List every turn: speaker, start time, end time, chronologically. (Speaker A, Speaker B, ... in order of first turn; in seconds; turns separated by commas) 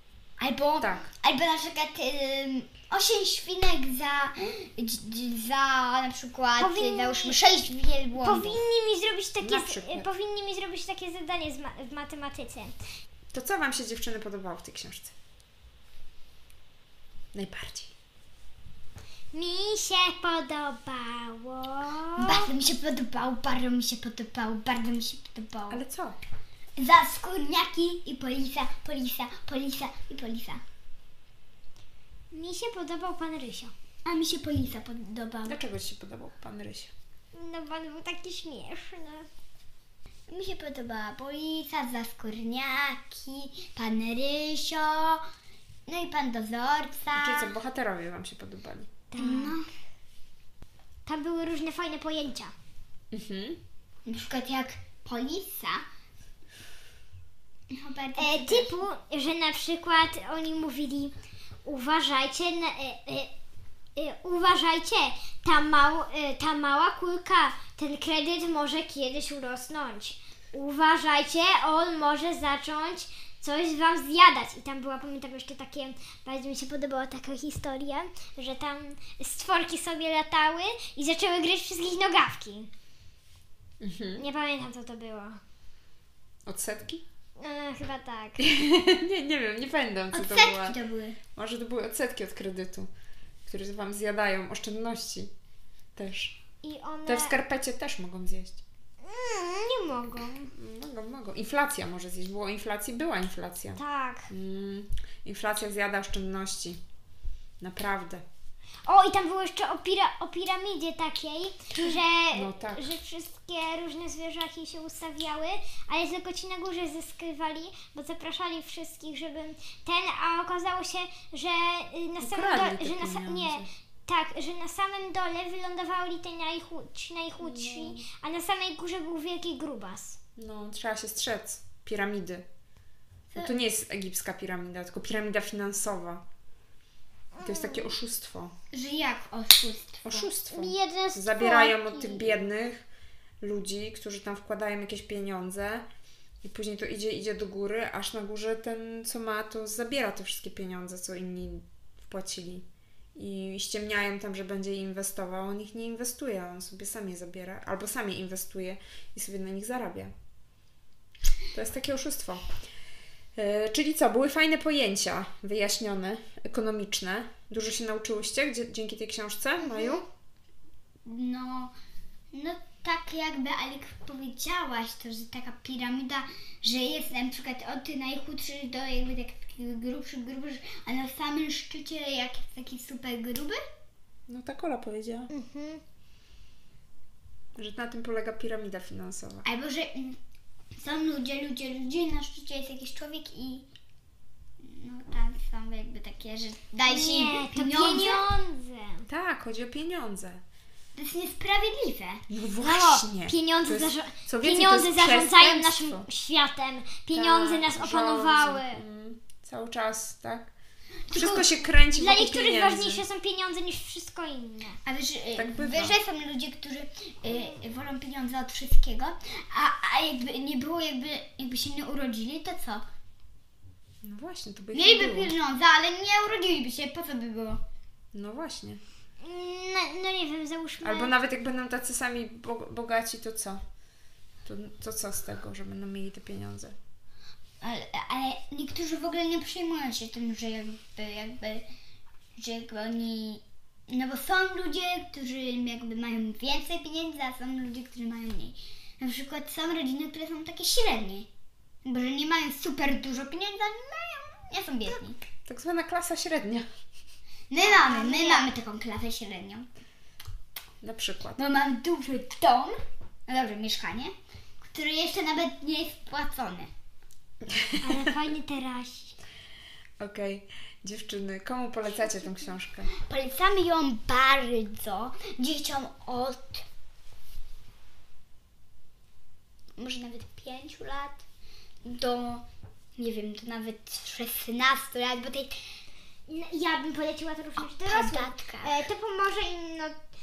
Speaker A: 0.4-8.6, Speaker B: 0.8-1.1, Speaker C: 6.6-7.4, Speaker C: 8.2-12.8, Speaker B: 9.4-10.1, Speaker B: 13.3-15.1, Speaker B: 17.3-17.9, Speaker C: 19.3-22.5, Speaker A: 22.2-25.8, Speaker B: 25.7-26.2, Speaker A: 26.8-30.6, Speaker C: 32.3-33.7, Speaker A: 34.0-35.6, Speaker B: 35.5-36.9, Speaker C: 37.3-39.3, Speaker A: 40.3-45.2, Speaker A: 45.9-47.5, Speaker B: 47.1-48.9, Speaker C: 49.1-49.6, Speaker A: 49.2-49.7, Speaker C: 51.1-52.5, Speaker B: 53.1-53.6, Speaker A: 54.1-55.8, Speaker A: 57.7-58.8, Speaker C: 58.2-61.1, Speaker C: 61.6-63.3, Speaker C: 64.0-82.7, Speaker B: 83.8-84.2, Speaker C: 84.2-85.4, Speaker B: 86.5-87.0, Speaker C: 87.4-88.4, Speaker B: 88.4-90.8, Speaker A: 90.1-91.2, Speaker B: 91.4-92.9, Speaker B: 93.5-95.3, Speaker B: 96.0-96.3, Speaker C: 96.6-97.3, Speaker B: 97.1-98.6, Speaker C: 99.0-100.5, Speaker B: 100.5-106.8, Speaker C: 103.8-104.3, Speaker B: 107.6-108.2, Speaker C: 108.9-130.2, Speaker B: 112.3-113.0, Speaker B: 122.2-123.7, Speaker B: 127.4-128.0, Speaker B: 130.4-132.4, Speaker A: 133.3-133.6, Speaker B: 133.4-136.2, Speaker C: 137.3-138.0, Speaker B: 137.4-138.5, Speaker A: 138.7-140.3, Speaker B: 140.0-142.8, Speaker C: 140.5-142.3, Speaker B: 143.4-145.9, Speaker B: 146.4-160.1, Speaker B: 161.5-162.5, Speaker B: 163.4-170.1, Speaker A: 169.6-170.0, Speaker A: 171.1-171.7, Speaker A: 172.3-183.6, Speaker B: 184.3-185.3, Speaker C: 185.3-185.8, Speaker B: 187.6-189.4, Speaker A: 189.4-190.2, Speaker A: 190.8-193.7, Speaker A: 194.6-198.2, Speaker C: 196.8-199.1, Speaker B: 199.1-200.4, Speaker A: 201.0-202.2, Speaker B: 202.3-206.1, Speaker C: 202.6-208.8, Speaker B: 207.1-210.5, Speaker B: 211.1-213.0, Speaker C: 211.1-214.8, Speaker A: 214.8-222.8, Speaker B: 215.4-216.0, Speaker B: 224.0-225.3, Speaker A: 224.7-227.6, Speaker B: 228.1-228.8, Speaker C: 229.2-231.1, Speaker B: 230.8-233.6, Speaker B: 234.4-236.8, Speaker A: 237.6-241.7, Speaker A: 242.4-251.3, Speaker A: 251.8-255.2, Speaker B: 255.5-256.7, Speaker A: 257.5-259.7, Speaker C: 257.6-258.5, Speaker B: 260.8-261.4, Speaker A: 261.4-262.8, Speaker A: 263.3-266.7, Speaker B: 267.5-268.0, Speaker C: 267.8-269.1, Speaker B: 270.0-272.9, Speaker A: 273.0-276.6, Speaker A: 279.8-281.2, Speaker A: 281.9-282.4, Speaker A: 283.0-285.5, Speaker C: 286.3-290.0, Speaker A: 287.6-288.7